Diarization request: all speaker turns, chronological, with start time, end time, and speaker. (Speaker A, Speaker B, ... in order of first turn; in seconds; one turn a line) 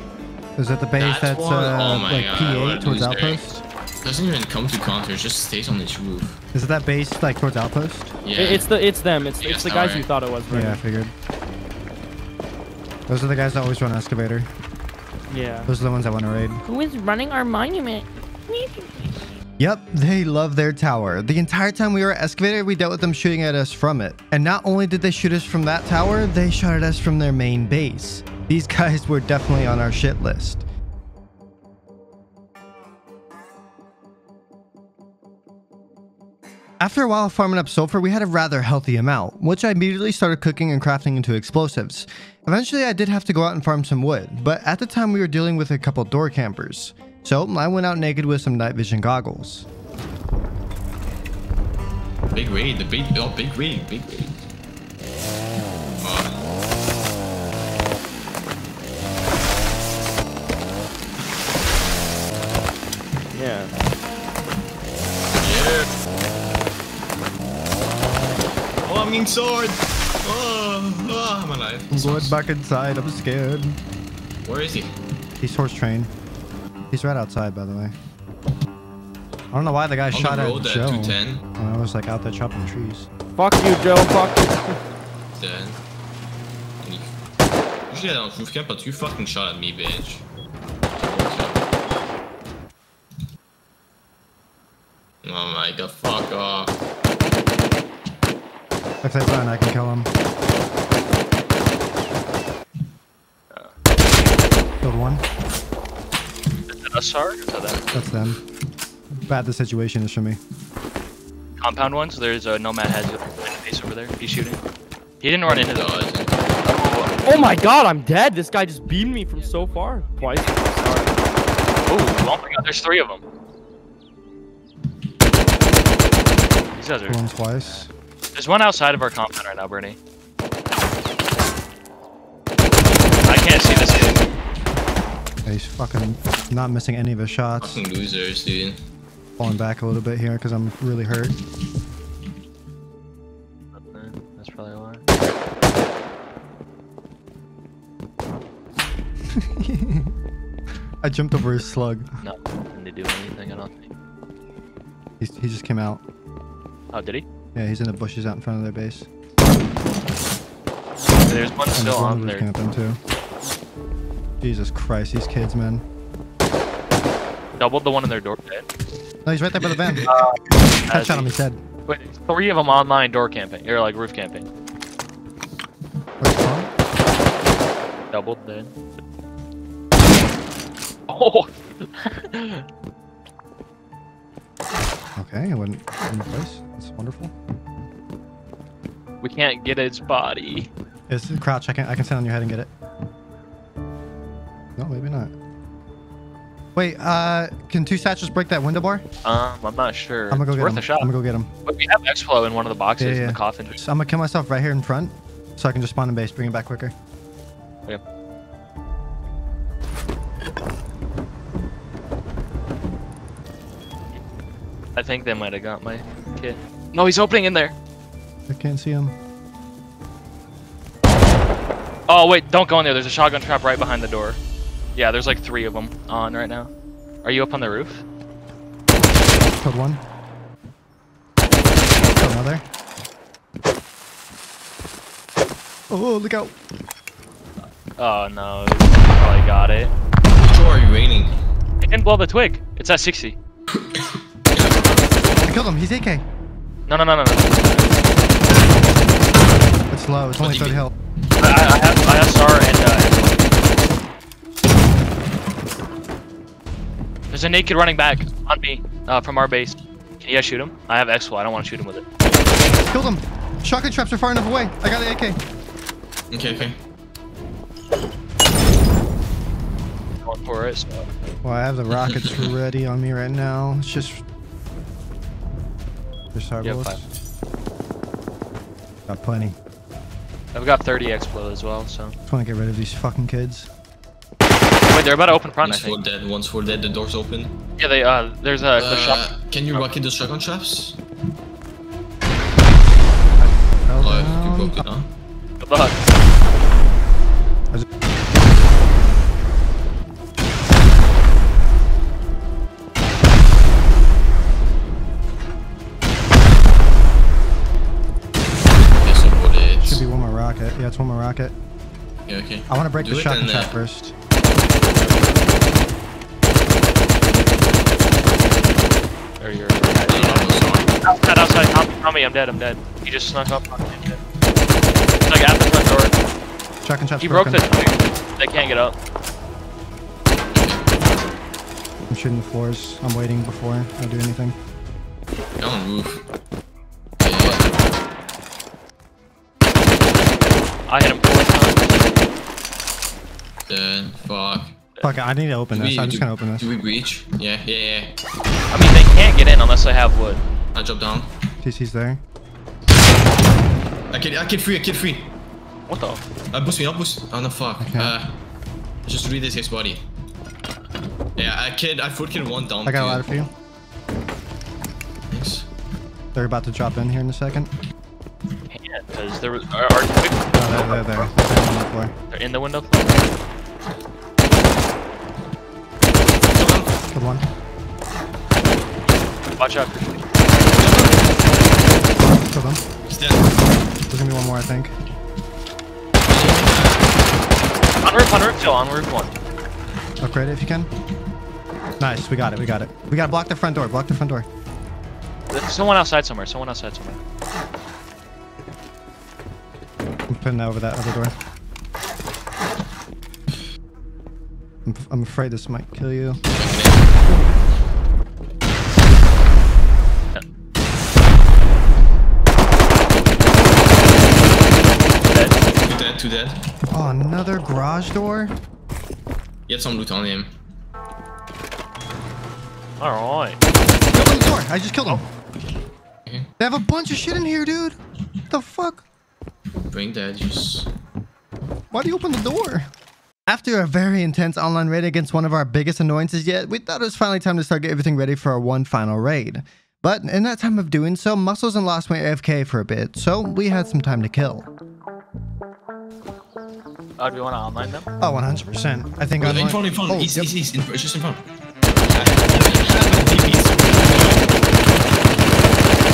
Speaker A: 0.6-3.6
Speaker B: 1.0-6.4
Speaker A: 6.5-8.1
Speaker B: 8.2-8.7
Speaker C: 8.3-10.8
Speaker B: 9.3-10.1
Speaker A: 10.5-11.1
Speaker A: 13.1-14.5
Speaker C: 15.3-15.7
Speaker A: 15.7-16.6
Speaker C: 16.6-19.1
Speaker A: 19.6-30.6
Speaker A: 36.8-49.6
Speaker B: 52.3-54.3
Speaker B: 56.0-56.4
Speaker C: 63.3-63.7
Speaker B: 65.4-65.9
Speaker B: 68.8-72.3
Speaker A: 71.9-73.8
Speaker B: 74.4-75.0
Speaker A: 75.4-76.1
Speaker A: 76.9-77.9
Speaker A: 79.5-83.1
Speaker B: 80.1-81.4
Speaker C: 83.4-84.8
Speaker B: 85.3-85.8
Speaker B: 86.8-87.2
Speaker B: 87.9-90.2
Speaker B: 91.0-91.6
Speaker B: 95.2-96.8
Speaker A: 99.0-100.1
Speaker A: 104.8-105.2
Speaker D: 106.7-107.8
Speaker A: 107.9-108.4
Speaker A: 109.1-110.4
Speaker D: 111.6-114.6
Speaker D: 115.2-117.2
Speaker B: 115.5-116.4
Speaker C: 117.2-120.5
Speaker D: 120.2-121.1
Speaker D: 121.9-123.2
Speaker D: 126.7-127.8
Speaker A: 127.1-127.9
Speaker D: 128.3-130.0
Speaker D: 133.2-134.3
Speaker A: 135.4-137.8
Speaker B: 137.6-138.8
Speaker A: 139.4-141.3
Speaker D: 143.7-145.0
Speaker A: 149.3-150.1
Speaker A: 151.0-152.1
Speaker D: 152.2-153.9
Speaker A: 155.2-156.0
Speaker D: 156.9-157.2
Speaker A: 157.5-159.1
Speaker D: 161.2-162.5
Speaker A: 161.7-163.0
Speaker A: 164.4-165.8
Speaker D: 167.6-168.7
Speaker A: 169.2-170.1
Speaker B: 169.7-170.1
Speaker D: 170.0-171.3
Speaker A: 170.9-171.6
Speaker D: 171.9-174.5
Speaker A: 176.2-176.7
Speaker D: 178.1-178.7
Speaker D: 181.1-182.6
Speaker A: 185.2-187.3
Speaker D: 189.2-190.7
Speaker A: 191.1-192.7
Speaker A: 194.8-195.3
Speaker A: 196.7-199.0
Speaker D: 199.2-201.1
Speaker A: 200.3-201.5
Speaker D: 201.7-203.8
Speaker A: 203.0-206.9
Speaker D: 214.9-217.7
Speaker A: 218.5-219.1
Speaker D: 222.1-224.4
Speaker D: 224.9-226.7
Speaker D: 227.2-228.0
Speaker A: 229.3-230.0
Speaker A: 232.0-232.6
Speaker A: 235.9-236.5
Speaker D: 238.0-239.9
Speaker B: 240.4-241.3
Speaker D: 241.8-243.3
Speaker B: 243.7-244.9
Speaker A: 245.4-246.2
Speaker D: 246.9-248.0
Speaker A: 249.9-250.9
Speaker B: 250.4-250.8
Speaker D: 251.4-253.4
Speaker D: 257.3-262.0
Speaker A: 262.7-265.4
Speaker B: 266.3-266.8
Speaker D: 270.2-271.1
Speaker A: 271.4-274.2
Speaker B: 272.0-272.5
Speaker A: 276.3-277.0
Speaker D: 276.6-277.0
Speaker A: 279.1-279.6
Speaker D: 280.5-282.1
Speaker A: 282.3-283.7
Speaker D: 284.9-286.0
Speaker B: 285.6-287.6
Speaker D: 287.8-289.9
Speaker B: 288.8-291.0
Speaker A: 293.4-294.8
Speaker B: 294.0-295.1
Speaker D: 295.6-296.0
Speaker B: 308.7-310.0
Speaker A: 309.8-311.5
Speaker B: 312.2-313.9
Speaker A: 312.7-314.1
Speaker D: 319.4-324.2
Speaker B: 320.0-320.9
Speaker D: 325.2-326.1
Speaker A: 326.8-327.6
Speaker D: 327.2-328.9
Speaker B: 330.5-330.9
Speaker A: 332.1-334.6
Speaker B: 335.6-336.2
Speaker B: 337.2-338.0
Speaker D: 340.9-342.2
Speaker B: 343.6-344.7
Speaker A: 345.0-346.7
Speaker B: 345.7-348.1
Speaker D: 348.7-350.4
Speaker B: 350.7-351.3
Speaker A: 351.6-352.2
Speaker B: 354.1-355.3
Speaker D: 355.9-356.2
Speaker B: 356.5-358.4
Speaker A: 357.8-358.1
Speaker B: 359.1-360.0
Speaker B: 361.4-363.2
Speaker A: 362.9-363.5
Speaker B: 365.3-365.7
Speaker A: 366.3-367.7
Speaker D: 368.7-371.3
Speaker A: 370.5-372.1
Speaker D: 372.3-373.3
Speaker B: 376.5-376.9
Speaker A: 377.1-377.4
Speaker D: 379.6-380.3
Speaker B: 380.7-381.3
Speaker A: 382.2-382.8
Speaker B: 383.1-383.6
Speaker A: 384.1-384.9
Speaker B: 386.2-387.1
Speaker D: 388.0-389.3
Speaker A: 390.2-390.9
Speaker A: 392.0-394.5
Speaker D: 395.5-397.2
Speaker A: 400.3-401.3
Speaker A: 404.9-406.4
Speaker B: 406.5-407.1
Speaker D: 415.3-415.6
Speaker B: 415.8-416.6
Speaker A: 416.9-418.5
Speaker B: 419.7-420.5
Speaker D: 423.0-423.6
Speaker A: 424.1-425.2
Speaker A: 426.6-428.0
Speaker A: 428.5-429.0
Speaker B: 429.9-430.9
Speaker A: 431.9-432.9
Speaker A: 433.5-444.7
Speaker D: 447.2-448.1
Speaker A: 448.2-450.5
Speaker B: 449.4-451.4
Speaker B: 452.1-454.4